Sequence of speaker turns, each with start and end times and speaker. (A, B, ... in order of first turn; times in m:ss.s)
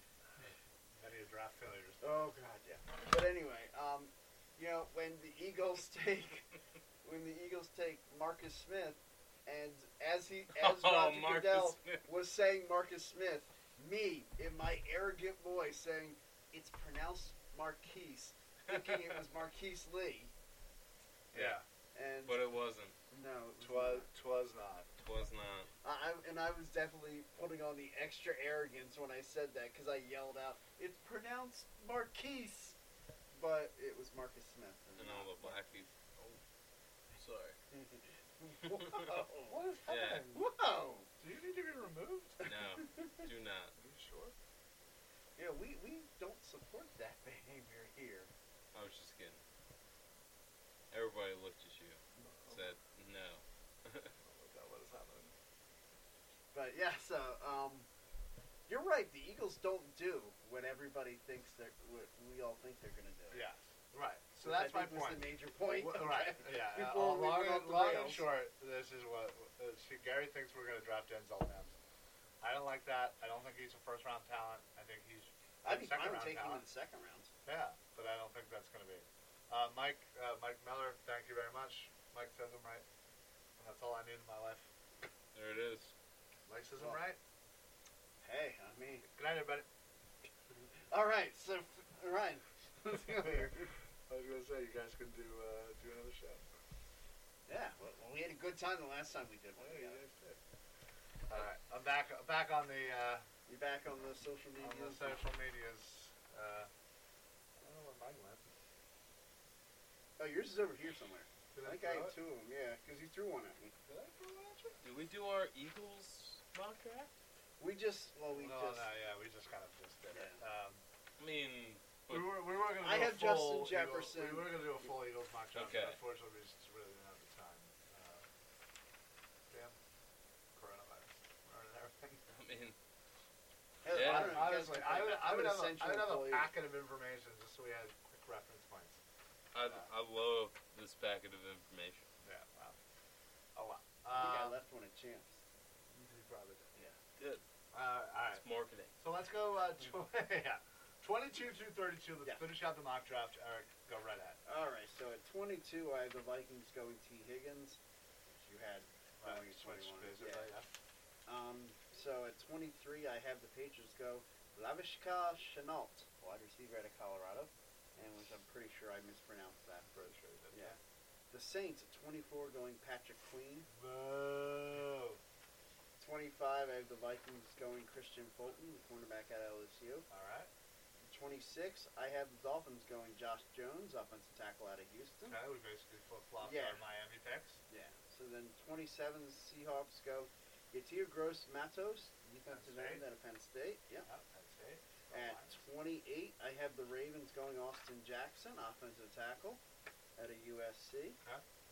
0:00.4-0:02.0 A
0:02.0-0:06.5 B
0:07.0-0:20.3 B
0:10.5-0:12.0 C
0:18.7-0:19.1 C
0:21.3-0:21.6 A
0:21.3-0:22.4 B
0:22.3-0:23.0 C
0:23.1-0:24.1 B
0:23.6-0:24.9 A
0:25.0-0:25.7 C
0:25.8-0:32.8 B
0:33.3-0:35.6 B
0:35.0-0:36.4 C
0:37.2-0:37.6 C
0:37.7-0:39.6 B
0:38.7-0:39.1 C
0:39.5-0:40.4 A
0:39.9-0:40.3 C
0:40.3-0:41.1 B
0:41.2-0:42.5 A
0:42.4-0:43.8 C
0:42.8-0:43.3 B
0:43.8-0:44.4 A
0:45.4-0:48.3 B
0:48.7-0:49.4 C
0:50.9-0:54.1 C
0:52.2-0:52.7 A
0:54.2-0:55.3 A
0:56.5-0:57.9 B
0:58.7-1:03.5 B
1:03.3-1:11.8 A
1:04.4-1:08.3 B
1:12.4-1:16.6 A
1:15.6-1:17.3 B
1:17.4-1:22.8 A
1:23.6-1:24.7 A
1:25.4-1:25.9 C
1:26.5-1:27.2 A
1:28.2-1:29.1 B
1:29.0-1:29.7 A
1:30.8-1:33.7 B
1:32.9-1:36.5 A
1:37.5-1:40.0 B
1:39.6-1:40.4 A
1:41.3-1:43.3 A
1:43.5-1:45.2 B
1:44.6-1:46.7 A
1:47.6-1:48.5 A
1:50.2-1:53.7 B
1:51.5-1:52.2 A
1:53.9-1:54.8 A
1:54.8-1:57.1 C
1:57.6-1:58.9 B
1:58.4-2:00.8 A
2:00.1-2:00.4 B
2:01.2-2:02.4 C
2:02.1-2:08.3 A
2:02.8-2:04.9 B
2:05.5-2:06.0 C
2:09.5-2:09.8 A
2:10.6-2:12.2 A
2:12.3-2:12.8 C
2:13.8-2:16.5 B
2:13.9-2:14.5 C
2:13.9-2:19.0 A
2:19.5-2:22.1 C
2:22.2-2:22.8 A
2:23.6-2:24.6 A
2:24.1-2:25.4 B
2:25.9-2:26.7 A
2:27.2-2:27.4 C
2:27.7-2:28.4 A
2:28.2-2:28.9 C
2:29.0-2:34.4 A
2:34.4-2:37.8 B
2:38.3-2:40.5 B
2:39.2-2:40.7 A
2:41.3-2:49.9 B
2:49.9-2:50.8 A
2:50.5-2:50.8 B
2:51.3-2:53.7 B
2:53.7-2:55.2 A
2:56.0-3:00.1 B
3:00.1-3:00.5 A
3:01.1-3:05.4 B
3:05.3-3:07.6 A
3:06.4-3:06.8 B
3:07.7-3:14.1 B
3:12.5-3:13.0 A
3:14.0-3:15.6 A
3:15.1-3:19.6 B
3:20.2-3:21.2 B